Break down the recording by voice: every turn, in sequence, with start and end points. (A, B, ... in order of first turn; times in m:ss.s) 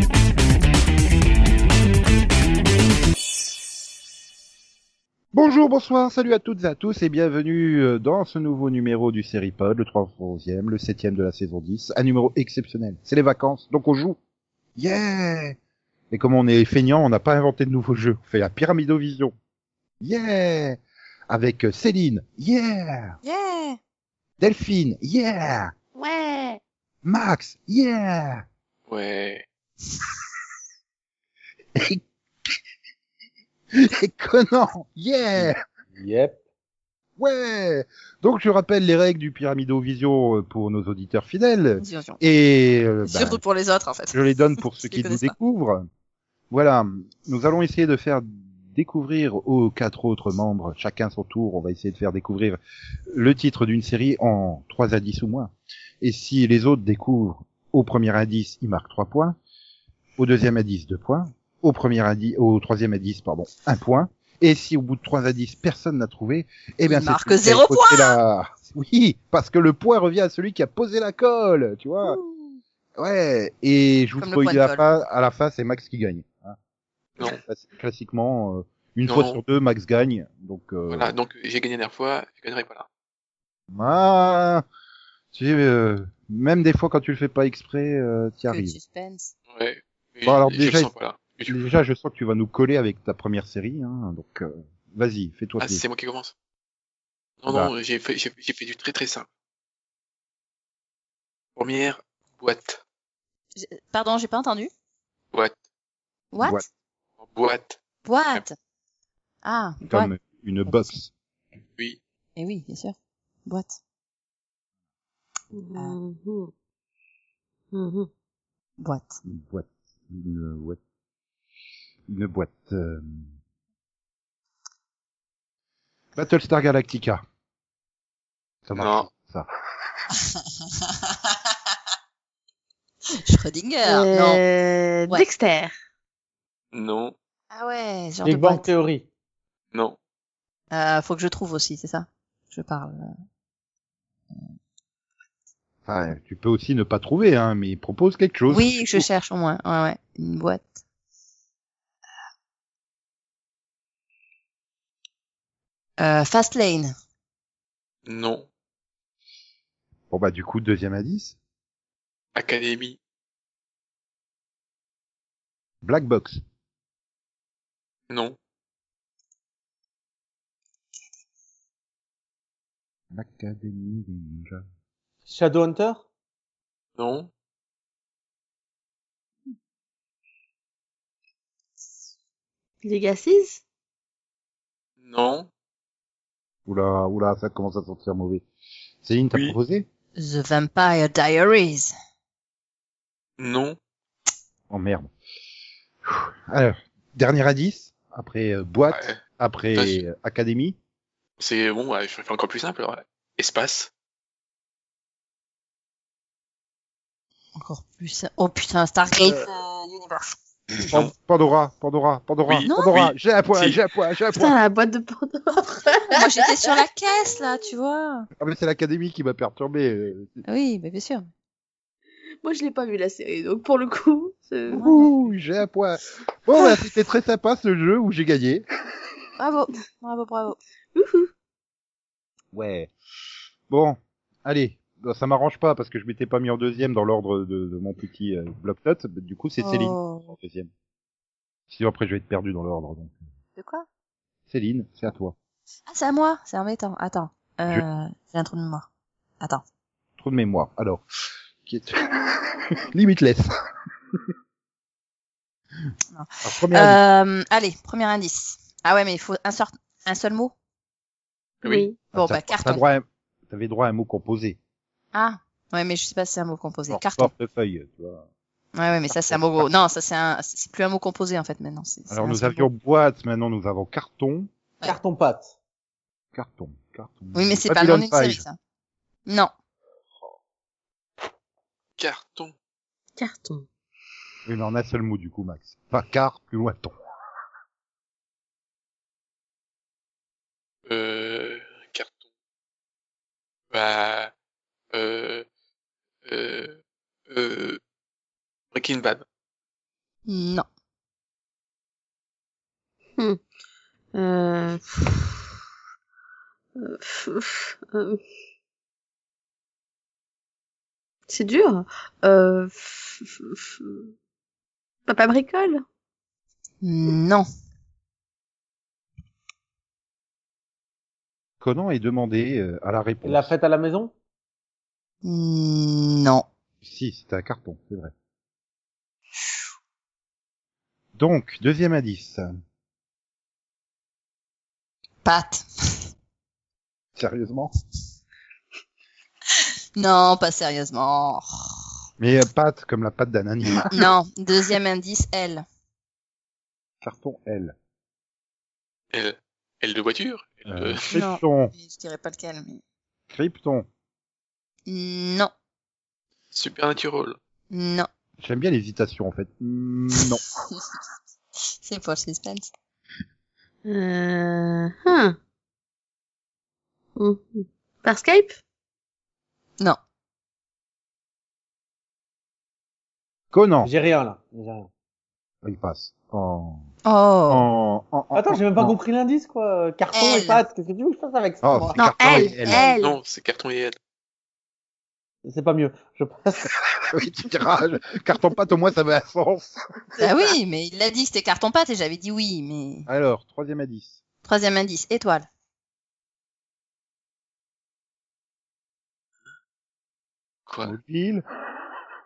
0:05.3-0:14.2 A
0:14.8-0:15.6 A
0:16.1-0:19.3 A
0:20.0-0:23.2 A
0:23.2-0:23.8 B
0:24.4-0:25.7 A
0:26.0-0:26.6 C
0:27.0-0:28.4 A
0:28.9-0:29.4 D
0:31.7-0:32.0 A
0:33.7-0:35.6 A
0:35.4-0:36.4 E
0:37.2-0:43.4 A
0:41.8-0:42.2 B
0:43.0-0:45.3 B
0:44.1-0:45.8 A
0:46.5-0:52.6 A
0:53.1-0:59.4 A
1:00.2-1:12.2 A
1:06.8-1:08.1 B
1:12.1-1:12.6 B
1:13.0-1:16.6 A
1:14.2-1:14.8 B
1:17.2-1:21.1 A
1:19.0-1:19.4 D
1:20.9-1:22.9 D
1:23.7-1:24.6 A
1:25.3-1:28.8 A
1:28.5-1:29.3 B
1:29.5-1:31.7 D
1:30.2-1:30.9 A
1:31.5-1:35.8 A
1:35.6-1:36.3 D
1:37.4-1:39.3 D
1:41.6-1:42.8 D
1:43.6-1:44.7 B
1:46.3-1:46.6 B
1:46.4-1:46.6 A
1:47.2-1:47.8 D
1:48.0-1:48.6 B
1:49.4-1:50.1 B
1:49.9-1:51.1 A
1:50.7-1:50.9 B
1:52.4-1:52.9 B
1:53.4-1:53.8 B
1:55.5-1:56.5 C
1:57.7-1:58.1 C
1:58.8-1:59.2 B
1:59.2-2:00.8 A
2:02.1-2:03.3 A
2:06.2-2:07.2 A
2:08.6-2:09.5 A
2:08.8-2:09.0 D
2:10.3-2:10.9 B
2:13.2-2:14.4 B
2:13.8-2:15.7 C
2:16.7-2:17.1 D
2:17.5-2:18.7 B
2:18.2-2:19.0 E
2:20.7-2:23.1 B
2:25.8-2:29.1 A
2:28.5-2:30.8 B
2:36.0-2:36.9 B
2:38.0-2:38.5 D
2:40.1-2:41.4 A
2:42.3-2:43.0 D
2:45.8-2:46.4 A
2:48.1-2:48.4 D
2:53.1-2:54.6 A
2:55.3-2:56.0 E
2:57.0-2:57.3 D
3:02.8-3:03.6 C
3:05.0-3:05.5 D
3:06.7-3:08.4 A
3:09.0-3:09.9 A
3:10.2-3:11.9 B
3:13.4-3:13.8 D
3:14.7-3:15.1 A
3:16.0-3:20.8 A
3:18.9-3:19.2 D
3:19.7-3:20.0 D
3:21.4-3:23.9 D
3:27.6-3:30.9 B
3:30.9-3:34.5 A
3:32.4-3:33.8 D
3:32.7-3:33.0 B
3:34.3-3:36.7 C
3:35.9-3:38.3 B
3:38.4-3:40.4 A
3:40.4-3:41.3 B
3:42.4-3:44.8 C
3:44.7-3:45.3 B
3:44.7-3:48.6 A
3:49.4-3:50.6 B
3:50.9-3:51.3 C
3:52.5-3:52.9 A
3:53.7-4:00.7 A
3:59.6-4:00.3 B
4:01.7-4:03.2 A
4:03.6-4:03.8 B
4:04.5-4:05.3 A
4:05.9-4:08.9 B
4:10.2-4:11.0 A
4:11.6-4:13.6 A
4:16.1-4:20.5 B
4:16.4-4:17.0 A
4:21.6-4:21.9 D
4:21.6-4:22.0 C
4:22.1-4:22.8 B
4:22.1-4:24.6 A
4:25.1-4:27.3 B
4:26.9-4:28.2 A
4:28.7-4:32.7 B
4:29.1-4:29.7 A
4:32.1-4:34.5 A
4:34.8-4:35.6 E
4:36.3-4:38.4 A
4:37.3-4:38.6 B
4:39.3-4:39.5 B
4:42.0-4:42.5 D
4:43.2-4:43.6 C
4:44.4-4:46.9 A
4:50.8-4:52.2 D
4:53.7-4:54.3 D
4:54.9-4:55.5 D
4:56.2-4:57.8 D
4:58.7-4:59.2 D
5:00.2-5:00.6 B
5:04.1-5:05.4 C
5:06.8-5:08.2 C
5:11.3-5:14.1 C
5:15.0-5:15.8 C
5:16.8-5:17.4 B
5:21.6-5:23.5 A
5:23.2-5:24.1 E
5:25.2-5:26.4 B
5:26.8-5:28.1 A
5:31.2-5:32.4 A
5:35.2-5:36.0 B
5:37.2-5:37.7 A
5:40.0-5:41.8 B
5:42.2-5:44.1 A
5:43.9-5:45.6 B
5:47.0-5:47.7 A
5:49.1-5:51.0 D
5:50.7-5:51.7 A
5:51.1-5:52.8 B
5:53.3-5:53.8 A
5:54.9-5:55.5 B
5:56.5-5:57.4 D
5:57.7-5:58.1 B
5:58.4-6:00.4 A
6:01.8-6:02.6 B
6:03.8-6:05.4 C
6:07.2-6:08.6 C
6:13.5-6:13.9 A
6:13.8-6:14.9 E
6:15.6-6:16.9 A
6:17.0-6:17.6 B
6:17.5-6:18.9 A
6:18.3-6:22.6 E
6:20.1-6:20.6 B
6:21.6-6:22.8 A
6:22.0-6:23.2 C
6:22.9-6:24.0 D
6:25.4-6:26.7 E
6:27.1-6:29.8 A
6:30.2-6:30.5 C
6:30.2-6:33.1 B
6:33.1-6:34.2 A
6:34.4-6:35.4 B
6:40.7-6:40.9 D
6:40.8-6:41.4 A